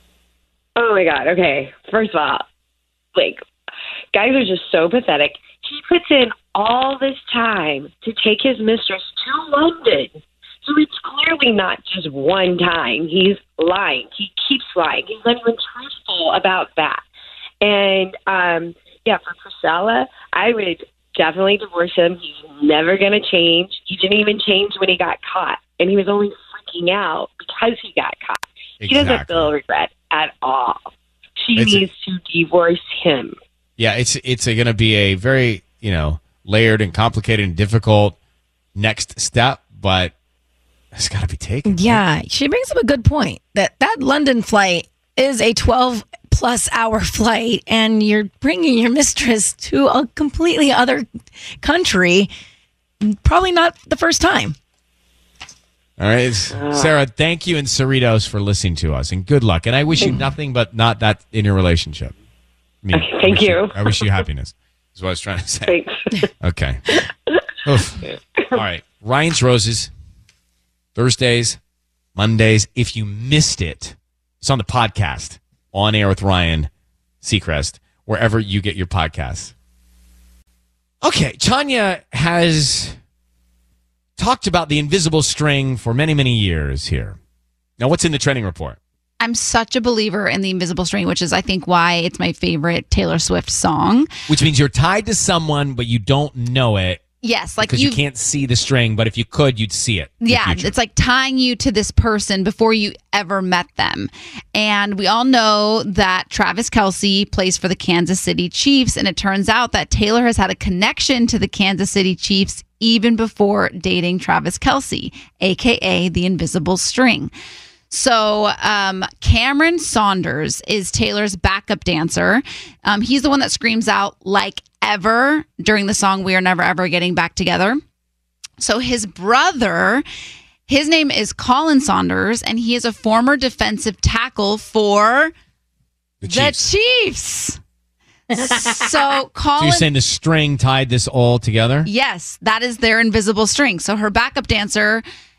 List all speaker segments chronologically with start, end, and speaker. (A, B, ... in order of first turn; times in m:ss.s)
0:00.8-0:02.4 A
0:03.2-0:03.4 A
0:04.1-0:17.0 A
0:17.6-0:30.9 A
0:28.8-0:29.5 B
0:31.4-0:33.4 A
0:31.6-0:31.8 B
0:33.8-0:38.2 B
0:38.8-0:40.1 B
0:40.9-0:42.0 B
0:41.7-0:51.1 C
0:51.6-0:52.3 C
0:53.0-0:54.6 C
0:56.0-1:02.1 B
0:56.5-0:56.9 A
1:02.8-1:05.7 B
1:02.9-1:04.0 A
1:05.7-1:06.3 A
1:06.4-1:06.8 B
1:07.6-1:08.0 B
1:08.1-1:08.6 A
1:08.5-1:09.9 B
1:11.0-1:11.6 B
1:12.2-1:16.7 B
1:17.2-1:19.5 B
1:21.0-1:23.0 B
1:24.2-1:27.2 B
1:27.8-1:28.8 B
1:29.2-1:34.1 D
1:34.3-1:37.0 B
1:37.2-1:38.0 D
1:37.6-1:40.7 B
1:40.2-1:57.3 D
1:57.9-2:07.8 D
2:08.6-2:10.0 D
2:10.7-2:15.3 D
2:16.2-2:16.6 B
2:16.2-2:17.6 D
2:18.3-2:18.9 C
2:18.4-2:19.9 D
2:19.6-2:21.9 B
2:21.9-2:25.0 D